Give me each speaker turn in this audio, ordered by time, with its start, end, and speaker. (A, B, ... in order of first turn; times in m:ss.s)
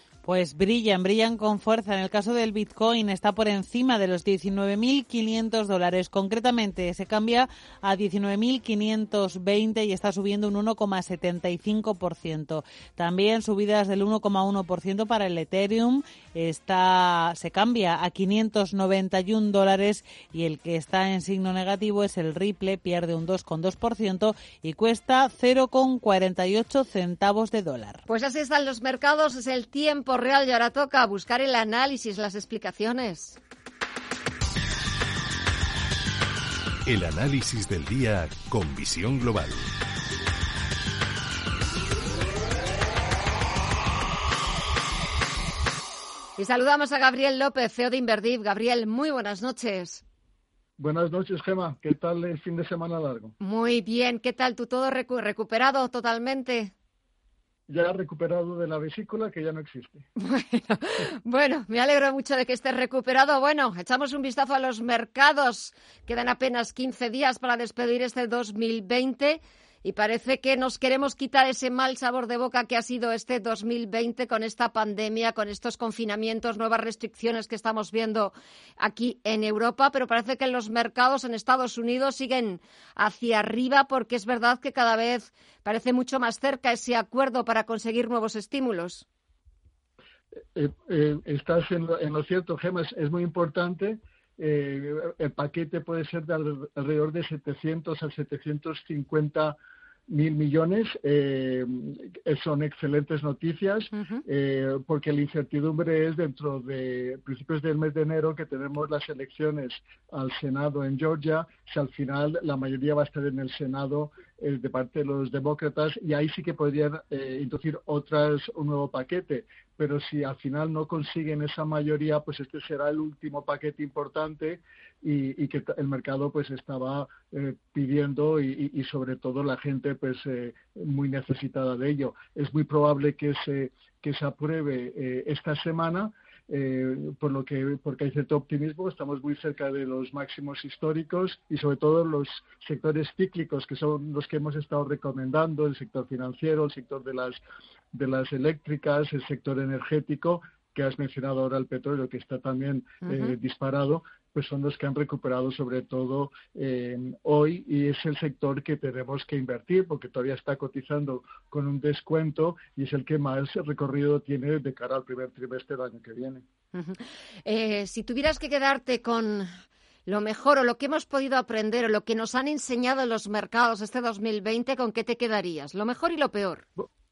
0:00.2-0:28.0 A
0:28.1-0:33.4 B
0:36.8-0:39.7 C
0:46.4-0:50.0 B
0:50.8-0:53.3 D
0:53.4-0:56.7 B
0:57.7-1:00.0 D
1:00.2-1:29.0 B
1:30.5-1:39.6 D
1:40.1-2:27.4 D
1:43.9-1:44.2 B
2:27.9-2:46.4 D
2:33.1-2:33.3 B
2:46.7-2:49.5 B
2:50.1-2:56.6 B